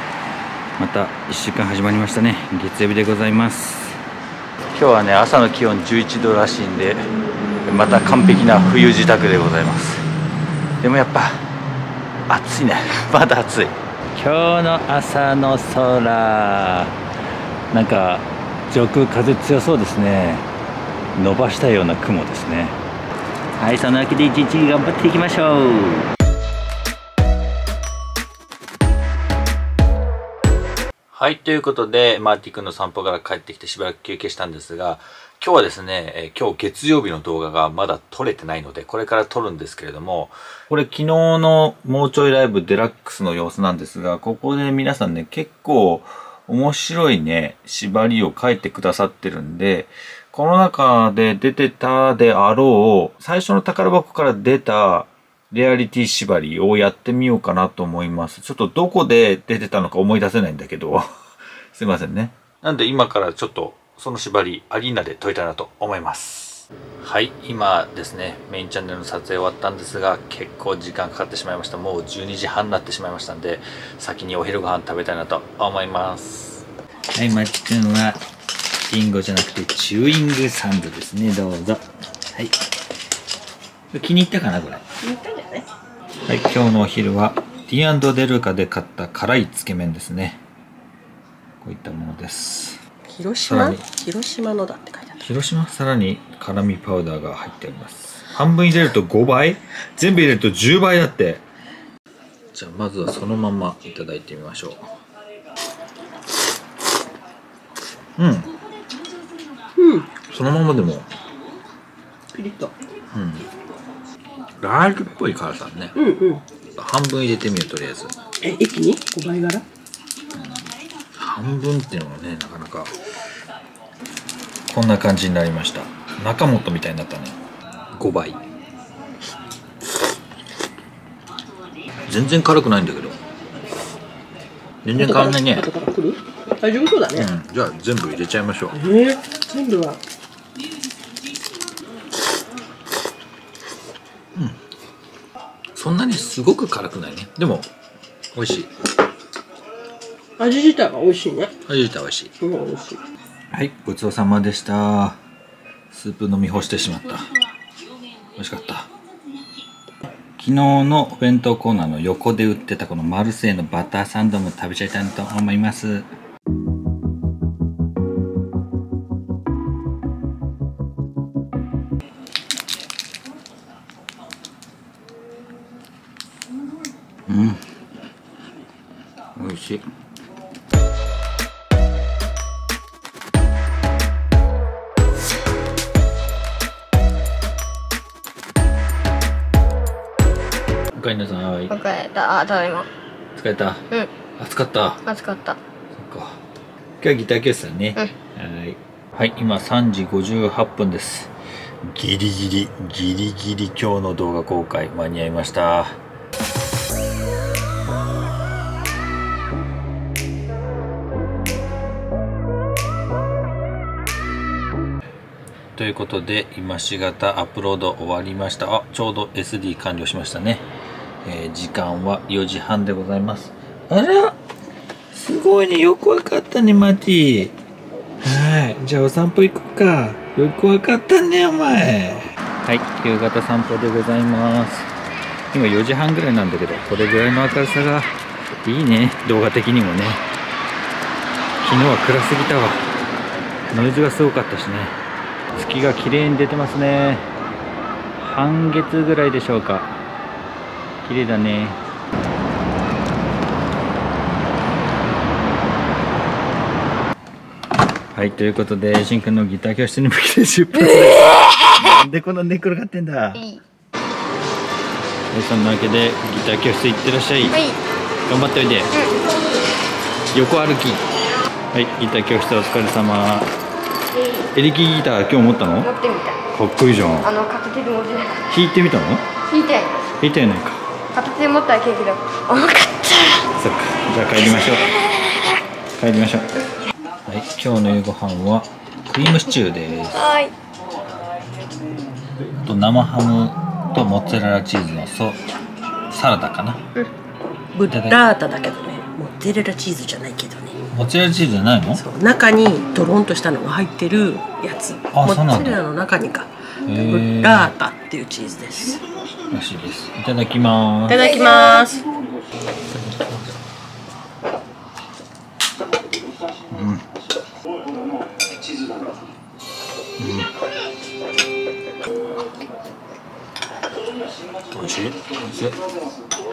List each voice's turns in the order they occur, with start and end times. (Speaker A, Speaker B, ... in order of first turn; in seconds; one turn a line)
Speaker A: 0.8-4.0
Speaker A: 4.7-7.1
Speaker A: 7.7-10.0
Speaker A: 10.8-11.4
Speaker A: 12.3-16.9
Speaker A: 17.7-20.5
Speaker A: 21.1-22.8
Speaker A: 23.6-26.1
Speaker A: 31.1-61.0
Speaker A: 61.7-78.2
Speaker A: 78.9-82.5
Speaker A: 83.9-84.8
Speaker B: 85.0-85.7
Speaker A: 86.2-90.4
Speaker A: 91.6-92.8
Speaker B: 93.1-95.2
Speaker A: 93.5-93.8
Speaker A: 95.2-101.4
Speaker A: 102.5-104.9
Speaker A: 108.2-108.5
Speaker B: 109.7-110.1
Speaker A: 110.2-111.1
Speaker B: 112.3-112.7
Speaker A: 113.1-113.5
Speaker A: 114.6-116.0
Speaker B: 116.0-116.4
Speaker A: 116.8-118.2
Speaker B: 118.4-119.6
Speaker A: 120.4-122.9
Speaker A: 124.7-127.4
Speaker A: 127.9-128.4
Speaker A: 132.1-133.2
Speaker A: 134.8-135.7
Speaker B: 135.0-137.3
Speaker A: 137.1-138.8
Speaker B: 138.7-140.0
Speaker A: 145.7-147.7
Speaker A: 148.3-148.7
Speaker B: 150.4-151.5
Speaker A: 151.6-152.3
Speaker B: 152.4-153.0
Speaker A: 153.5-155.2
Speaker A: 155.9-157.3
Speaker A: 158.3-158.9
Speaker A: 160.4-166.1
Speaker A: 177.3-177.6
Speaker A: 179.3-179.8
Speaker A: 190.9-191.7
Speaker C: 191.7-192.9
Speaker A: 193.3-195.0
Speaker C: 195.1-195.6
Speaker A: 195.9-196.4
Speaker A: 197.0-201.3
Speaker A: 201.8-206.0
Speaker A: 215.8-220.7
Speaker A: 221.2-224.4
Speaker A: 225.1-227.5
Speaker A: 228.2-234.9
Speaker A: 235.5-240.2
Speaker A: 241.6-242.8
Speaker A: 243.7-244.9
Speaker A: 245.5-247.3
Speaker A: 248.2-250.0
Speaker A: 251.0-251.8
Speaker A: 258.1-263.4
Speaker C: 263.3-263.6
Speaker A: 265.3-267.6
Speaker C: 267.5-267.8
Speaker A: 268.3-268.9
Speaker A: 270.3-271.0
Speaker A: 271.7-273.5
Speaker A: 274.4-275.9
Speaker C: 275.8-276.4
Speaker A: 276.5-277.3
Speaker C: 277.2-278.4
Speaker A: 278.5-279.3
Speaker C: 279.5-280.1
Speaker A: 280.2-280.8
Speaker C: 281.1-283.5
Speaker A: 283.5-285.0
Speaker A: 286.0-286.5
Speaker A: 287.2-290.4
Speaker C: 290.2-290.5
Speaker A: 292.5-295.4
Speaker A: 296.1-296.8
Speaker B: 297.7-300.8
Speaker A: 297.9-298.2
Speaker A: 300.9-302.0
Speaker B: 301.9-309.0
Speaker A: 305.1-305.8
Speaker A: 306.9-307.7
Speaker A: 309.5-311.3
Speaker B: 311.1-312.0
Speaker A: 312.9-313.6
Speaker A: 316.7-317.0
Speaker A: 320.2-320.5
Speaker A: 324.7-325.8